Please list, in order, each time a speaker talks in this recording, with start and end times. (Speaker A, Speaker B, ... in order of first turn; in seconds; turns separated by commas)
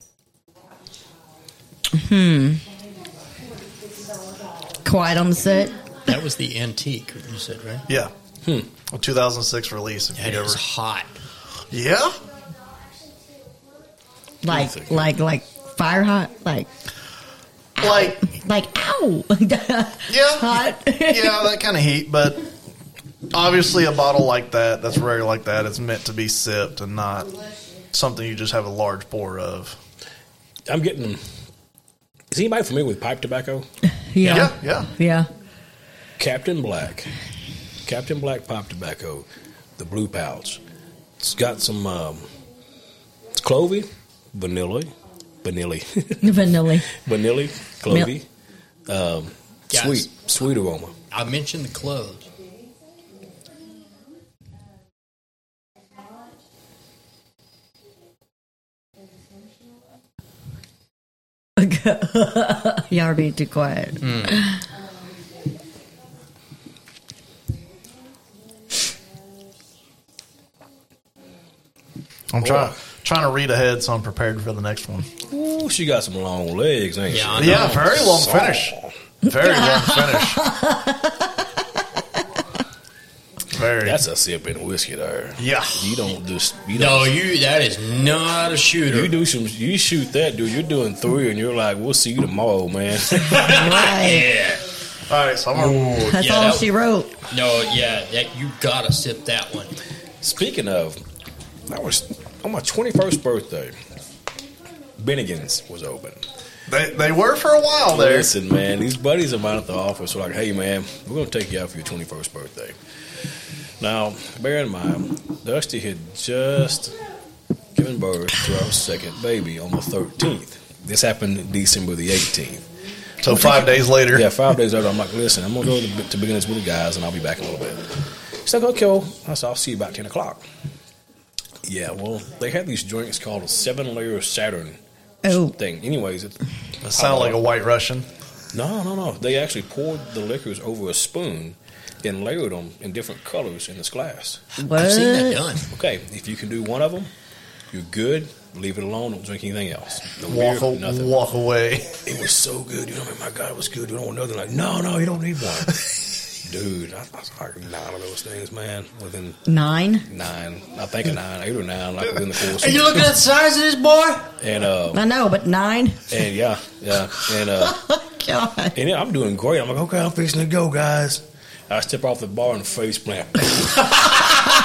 Speaker A: 1.9-2.6, Speaker A: 4.8-5.8, Speaker B: 6.1-7.9, Speaker C: 8.9-10.6, Speaker B: 10.2-11.2, Speaker C: 11.7-12.2, Speaker A: 14.4-16.7, Speaker D: 14.5-15.1, Speaker A: 17.8-21.5, Speaker C: 17.8-18.2, Speaker C: 20.1-22.4, Speaker C: 23.3-27.3, Speaker C: 27.9-29.8, Speaker D: 30.7-31.2, Speaker D: 32.3-33.7, Speaker A: 34.1-35.3, Speaker C: 34.2-34.9, Speaker D: 36.2-37.1, Speaker D: 37.9-39.3, Speaker D: 39.8-40.6, Speaker D: 41.2-42.3, Speaker D: 43.4-44.9, Speaker D: 45.4-46.4, Speaker A: 46.2-46.9, Speaker D: 46.9-48.3, Speaker D: 48.9-51.0, Speaker B: 49.7-50.1, Speaker B: 51.1-52.3, Speaker A: 61.6-64.6, Speaker B: 64.0-64.4, Speaker C: 72.3-75.1, Speaker D: 72.4-72.7, Speaker D: 75.3-78.9, Speaker B: 77.1-77.9, Speaker C: 77.4-80.4, Speaker A: 79.3-81.3, Speaker C: 83.5-84.0, Speaker D: 83.8-87.2, Speaker C: 85.4-86.0, Speaker B: 86.7-89.1, Speaker D: 88.9-93.5, Speaker B: 93.3-94.6, Speaker A: 93.3-94.3, Speaker C: 95.1-95.9, Speaker B: 95.5-96.7, Speaker A: 96.0-97.1, Speaker B: 97.3-99.8, Speaker D: 100.2-101.0, Speaker D: 101.7-103.8, Speaker D: 105.0-106.2, Speaker C: 106.7-108.3, Speaker D: 107.9-112.8, Speaker D: 113.8-117.0, Speaker D: 117.8-122.6, Speaker C: 123.2-124.3, Speaker D: 124.1-127.9, Speaker D: 128.4-130.4, Speaker D: 131.6-136.4, Speaker A: 135.2-135.6, Speaker C: 136.8-138.1, Speaker D: 136.9-137.4, Speaker D: 138.5-144.4, Speaker A: 144.6-145.6, Speaker B: 144.7-145.7, Speaker D: 145.7-147.1, Speaker D: 147.7-151.1, Speaker C: 150.3-152.0, Speaker D: 152.1-155.8, Speaker D: 156.4-159.4, Speaker A: 159.5-160.1, Speaker D: 160.1-163.1, Speaker B: 162.4-164.3, Speaker D: 164.4-165.0, Speaker A: 164.9-166.1, Speaker D: 166.1-167.8, Speaker A: 167.5-168.8, Speaker D: 168.8-174.2